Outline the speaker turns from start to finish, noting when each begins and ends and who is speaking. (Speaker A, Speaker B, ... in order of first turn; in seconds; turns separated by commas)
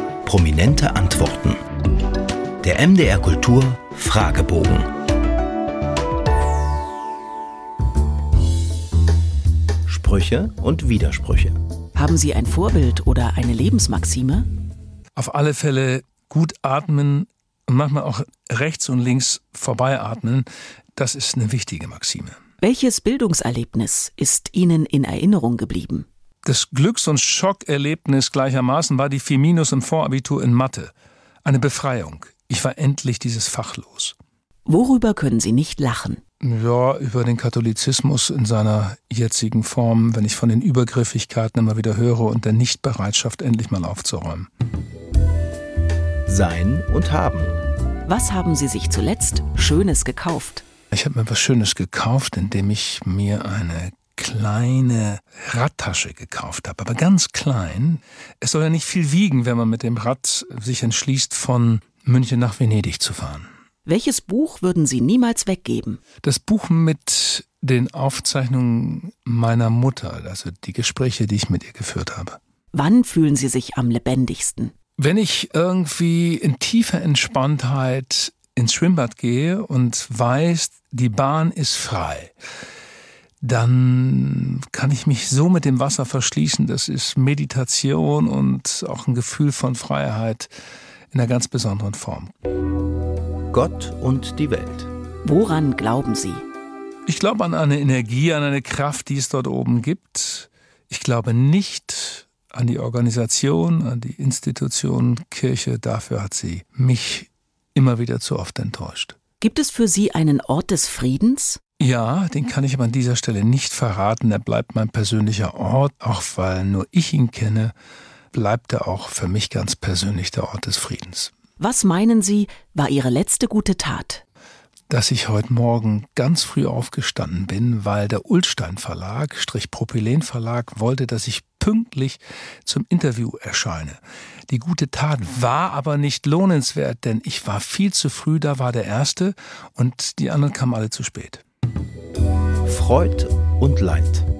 Speaker A: 0.2-1.6, Speaker A: 2.6-4.9, Speaker A: 9.9-11.6, Speaker B: 11.9-14.5, Speaker C: 15.2-22.4, Speaker B: 22.6-26.1, Speaker C: 26.4-30.9, Speaker C: 31.4-34.1, Speaker B: 34.6-36.2, Speaker C: 36.4-44.5, Speaker A: 46.2-47.6, Speaker B: 48.0-50.6, Speaker C: 50.9-63.5, Speaker B: 63.9-66.0, Speaker C: 66.2-72.4, Speaker B: 72.7-74.7, Speaker C: 75.0-82.3, Speaker C: 83.4-90.5, Speaker C: 91.1-92.3, Speaker A: 93.5-94.9, Speaker B: 95.2-96.4, Speaker C: 97.1-109.2, Speaker B: 109.4-111.6, Speaker C: 111.8-117.7, Speaker C: 118.3-121.3, Speaker B: 121.6-124.2, Speaker C: 124.9-141.4, Speaker A: 142.6-144.2